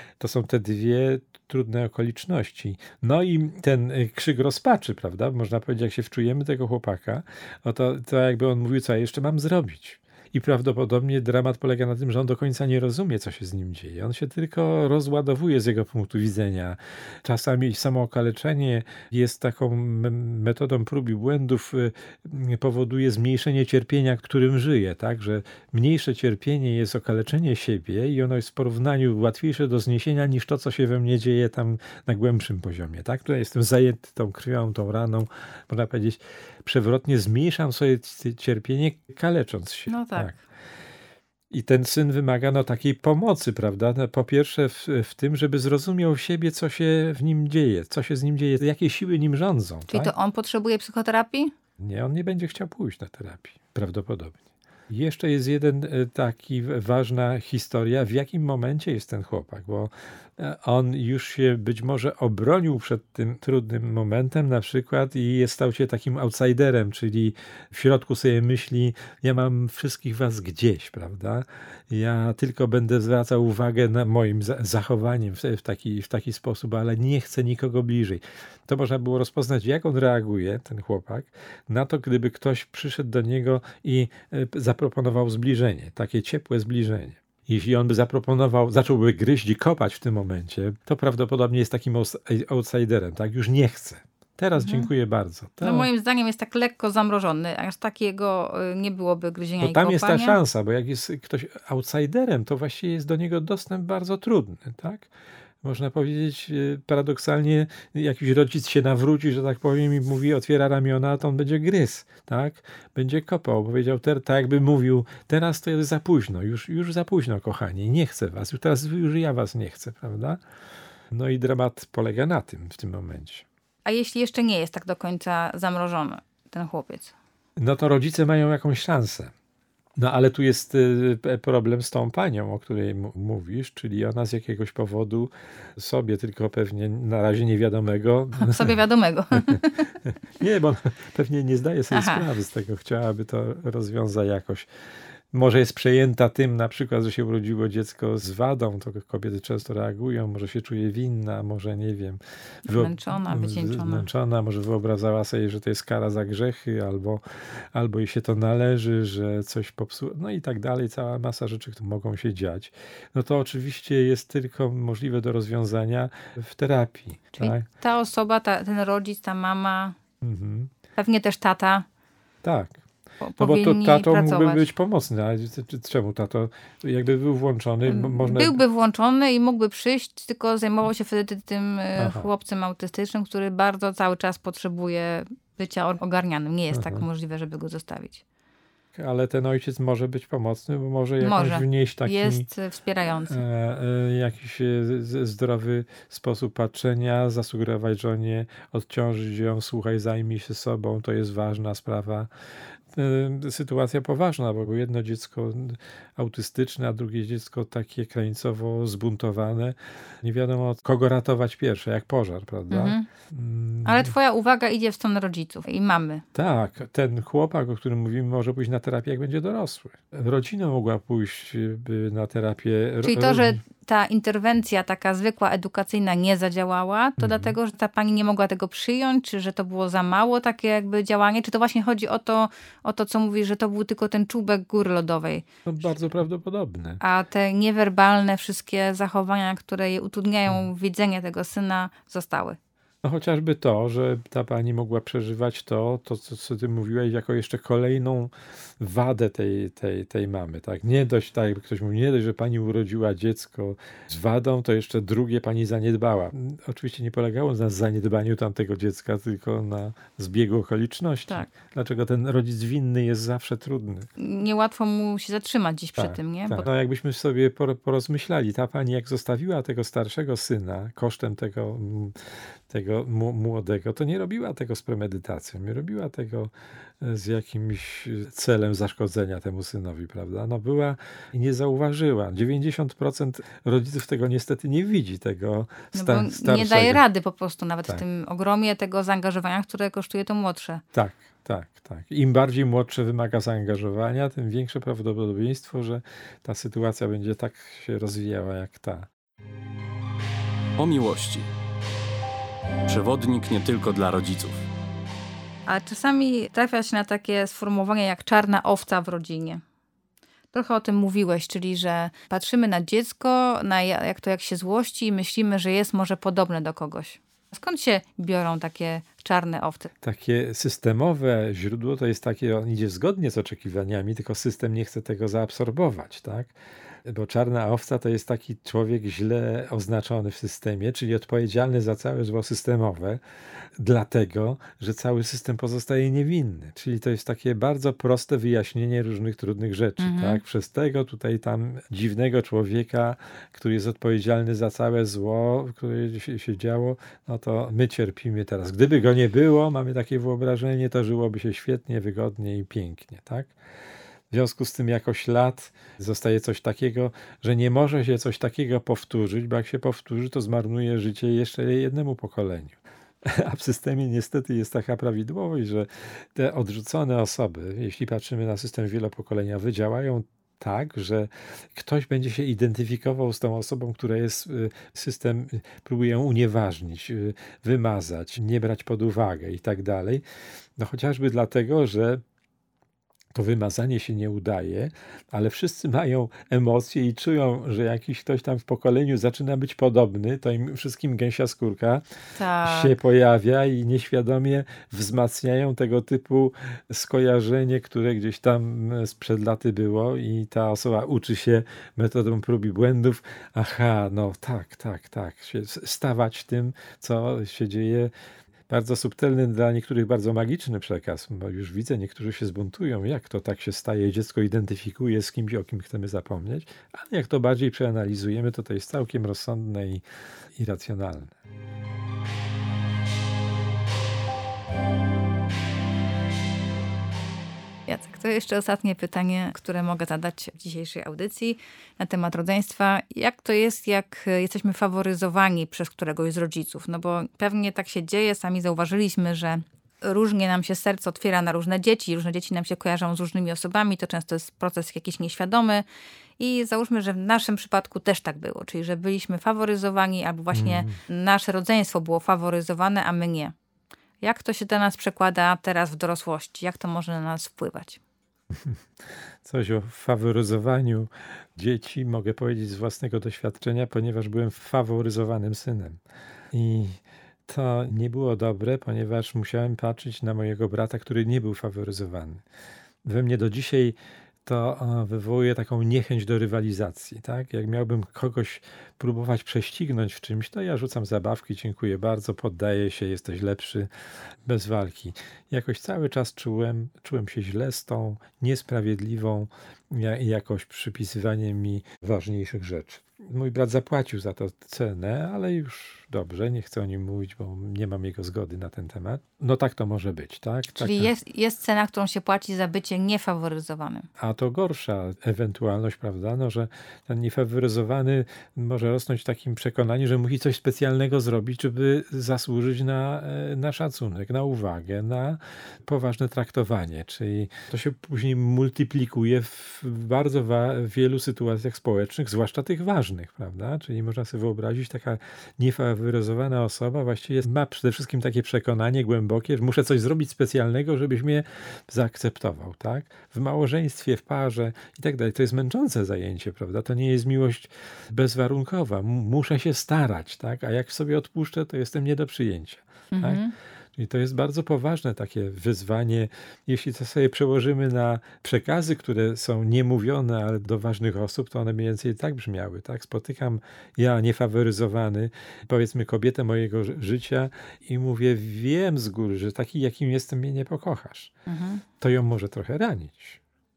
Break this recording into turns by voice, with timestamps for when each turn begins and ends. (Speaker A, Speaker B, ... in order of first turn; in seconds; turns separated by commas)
Speaker A: 0.2-40.4, Speaker B: 39.9-40.4, Speaker A: 41.5-50.1, Speaker B: 49.9-51.5, Speaker A: 51.8-95.9, Speaker B: 94.6-94.9, Speaker B: 95.6-100.4, Speaker A: 99.6-105.1, Speaker A: 105.6-120.4, Speaker A: 121.1-123.5, Speaker B: 123.8-127.1, Speaker A: 127.6-129.3, Speaker A: 130.0-138.7, Speaker B: 138.4-139.9, Speaker A: 139.3-144.7, Speaker B: 141.9-142.3, Speaker A: 145.3-167.7, Speaker B: 152.7-154.1, Speaker B: 167.4-170.0, Speaker A: 170.2-170.7, Speaker B: 171.0-171.9, Speaker A: 172.4-172.8, Speaker B: 173.2-174.6, Speaker A: 173.4-178.6, Speaker B: 177.9-188.2, Speaker A: 182.0-182.3, Speaker A: 186.7-187.1, Speaker A: 188.9-192.4, Speaker B: 191.2-193.4, Speaker A: 193.2-202.3, Speaker A: 202.9-214.1, Speaker B: 212.7-213.1, Speaker B: 213.8-216.2, Speaker A: 216.3-223.6, Speaker B: 223.0-235.5, Speaker A: 227.2-227.6, Speaker A: 235.7-237.0, Speaker B: 237.0-242.6, Speaker A: 243.0-264.1, Speaker B: 264.2-266.7, Speaker A: 266.0-287.0, Speaker B: 285.9-290.8, Speaker A: 290.9-299.1, Speaker C: 300.8-301.5, Speaker C: 302.9-304.7, Speaker B: 305.7-309.6, Speaker B: 310.5-319.9, Speaker A: 320.0-326.5, Speaker A: 327.1-333.2, Speaker A: 333.8-353.5, Speaker B: 340.0-340.4, Speaker A: 354.3-380.2, Speaker A: 380.8-382.2, Speaker A: 383.3-392.0, Speaker B: 392.4-392.9, Speaker A: 392.6-408.1, Speaker A: 408.7-420.0, Speaker A: 420.6-421.4, Speaker B: 427.9-445.8, Speaker B: 446.4-453.5, Speaker A: 450.5-451.0, Speaker B: 454.2-458.0, Speaker A: 458.5-466.0, Speaker A: 466.5-472.4, Speaker A: 473.0-483.9, Speaker A: 484.4-501.1, Speaker B: 500.8-504.1, Speaker A: 504.2-543.4, Speaker B: 543.1-543.5, Speaker A: 544.0-561.3, Speaker B: 561.5-561.8, Speaker A: 562.0-563.4